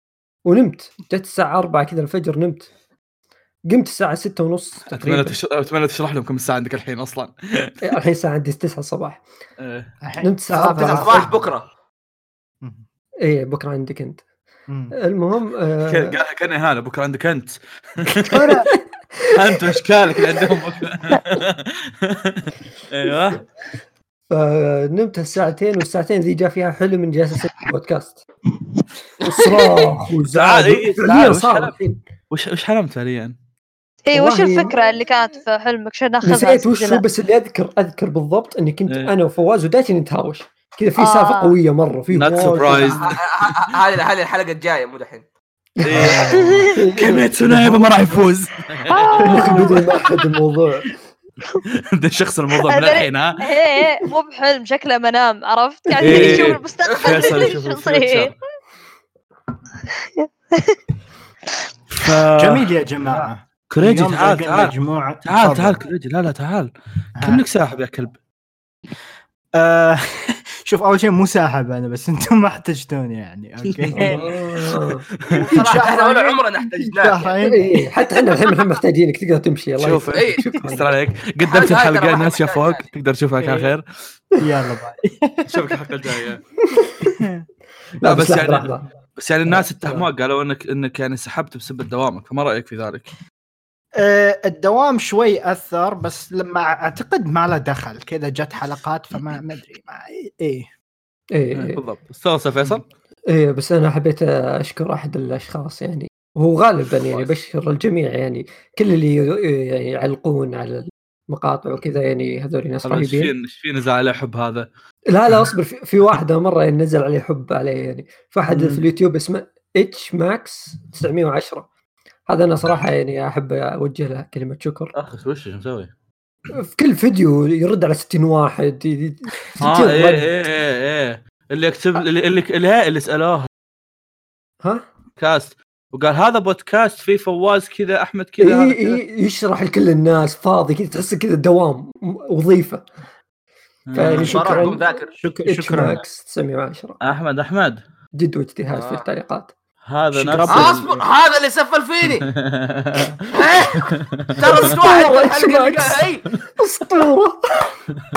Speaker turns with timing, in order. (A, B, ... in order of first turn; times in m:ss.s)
0:00.5-0:02.7 A
0:03.7-0:05.4 A
0:04.9-0:07.7 B
0:07.8-0:09.2 A
0:09.6-0:09.9 B
0:10.0-0:11.5 C
0:10.2-0:11.3 A
0:10.6-0:11.7 D
0:12.6-0:12.9 C
0:13.2-0:14.2 A
0:14.7-0:15.0 C
0:14.9-0:16.2 A
0:15.9-0:18.6 B
0:18.3-0:18.7 C
0:18.7-0:19.6 A
0:19.3-0:23.4 B
0:24.3-0:28.2 A
0:29.2-0:32.0 A
0:30.3-0:31.8 B
0:32.3-0:33.4 B
0:34.1-0:37.0 E
0:34.1-0:34.7 A
0:36.2-0:43.0 A
0:41.0-0:41.6 E
0:42.1-0:43.6 B
0:42.9-0:45.3 D
0:45.8-0:47.9 A
0:45.8-0:49.3 B
0:45.9-0:46.6 C
0:48.9-0:49.6 E
0:49.2-0:49.8 C
0:49.2-0:51.0 A
0:51.9-0:53.4 B
0:52.6-0:58.4 E
0:55.9-0:56.5 A
0:56.0-0:58.3 B
0:57.0-0:57.5 D
0:59.9-1:00.8 E
1:02.0-1:04.7 B
1:02.4-1:05.8 C
1:05.2-1:06.7 B
1:07.2-1:07.4 C
1:07.2-1:08.2 B
1:09.6-1:14.3 C
1:13.7-1:14.3 B
1:14.0-1:15.0 A
1:15.3-1:17.4 D
1:15.5-1:17.8 C
1:17.4-1:20.8 A
1:19.8-1:23.8 B
1:20.2-1:20.7 D
1:21.5-1:22.8 D
1:23.4-1:23.7 C
1:24.4-1:25.8 C
1:25.5-1:26.4 B
1:26.7-1:27.1 A
1:27.0-1:27.4 C
1:28.0-1:28.9 A
1:28.0-1:33.1 B
1:29.5-1:30.1 A
1:34.0-1:40.7 C
1:41.3-1:41.8 A
1:41.6-1:42.8 B
1:43.3-1:53.3 A
1:52.8-1:54.7 B
1:55.1-2:01.7 A
1:58.5-1:58.8 B
2:02.3-2:04.9 A
2:05.0-2:05.9 B
2:06.6-2:10.3 A
2:09.6-2:13.5 B
2:15.2-2:19.0 B
2:18.4-2:22.8 A
2:23.9-2:24.7 B
2:23.9-2:27.0 A
2:24.1-2:25.2 D
2:25.2-2:26.0 C
2:27.0-2:27.8 B
2:28.2-2:29.5 A
2:28.7-2:29.1 D
2:29.8-2:31.0 B
2:30.1-2:30.9 C
2:30.5-2:32.3 D
2:32.2-2:34.3 B
2:33.3-2:36.3 D
2:34.6-2:37.8 A